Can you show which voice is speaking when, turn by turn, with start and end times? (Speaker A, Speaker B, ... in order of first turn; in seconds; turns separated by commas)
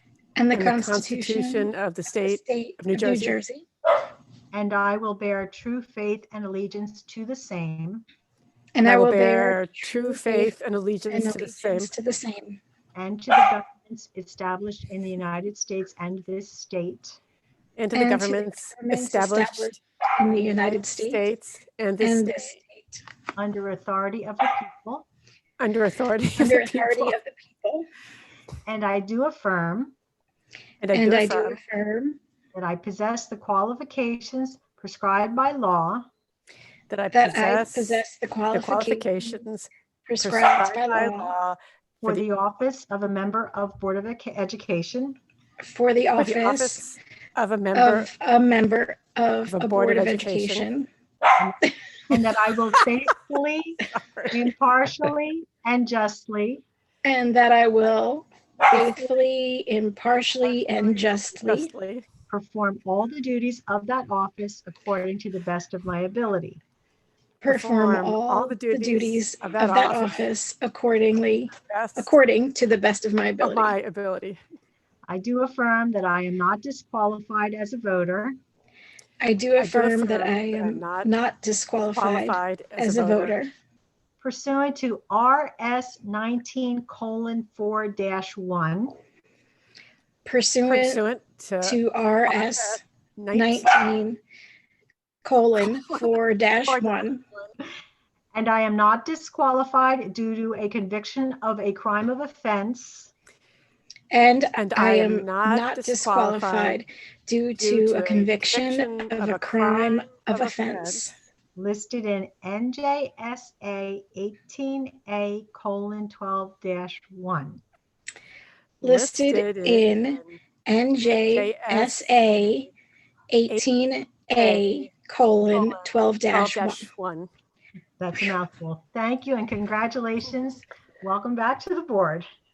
Speaker A: 0.3-3.7, Speaker B: 0.5-3.4, Speaker C: 4.5-8.0, Speaker A: 8.8-10.5, Speaker B: 8.8-11.9, Speaker A: 11.1-12.6, Speaker C: 12.9-17.2, Speaker B: 17.8-19.8, Speaker A: 17.9-21.2, Speaker B: 20.4-22.5, Speaker A: 22.0-23.0, Speaker C: 23.4-25.1, Speaker B: 25.6-27.1, Speaker A: 26.4-27.9, Speaker C: 28.7-29.9, Speaker B: 30.8-31.6, Speaker A: 30.9-32.2, Speaker C: 32.5-36.1, Speaker B: 36.9-38.0, Speaker A: 37.1-39.3, Speaker B: 38.5-39.7, Speaker A: 40.1-41.3, Speaker B: 40.2-42.2, Speaker C: 42.0-45.2, Speaker A: 45.6-46.8, Speaker B: 46.2-48.1, Speaker A: 47.7-50.9, Speaker B: 49.5-50.7, Speaker C: 51.4-56.6, Speaker B: 53.9-54.4, Speaker A: 57.0-61.7, Speaker B: 61.2-62.1, Speaker C: 62.3-66.6, Speaker B: 67.4-70.2, Speaker A: 67.4-73.7, Speaker B: 71.6-72.2, Speaker B: 73.4-74.4, Speaker C: 75.1-78.4, Speaker A: 79.2-83.5, Speaker B: 79.6-81.1, Speaker B: 81.9-83.4, Speaker C: 84.2-88.9, Speaker A: 90.2-91.0, Speaker B: 90.7-93.8, Speaker A: 91.6-92.8, Speaker A: 93.3-94.2, Speaker A: 95.2-97.2, Speaker B: 96.7-97.0, Speaker C: 98.3-103.1, Speaker A: 104.1-111.1, Speaker B: 104.6-106.8, Speaker B: 107.6-111.0, Speaker C: 111.6-117.6, Speaker B: 118.8-120.4, Speaker A: 118.8-122.7, Speaker B: 121.3-122.5, Speaker A: 123.3-126.8, Speaker B: 124.3-124.9, Speaker B: 125.5-125.8, Speaker B: 126.3-127.3, Speaker C: 128.0-132.3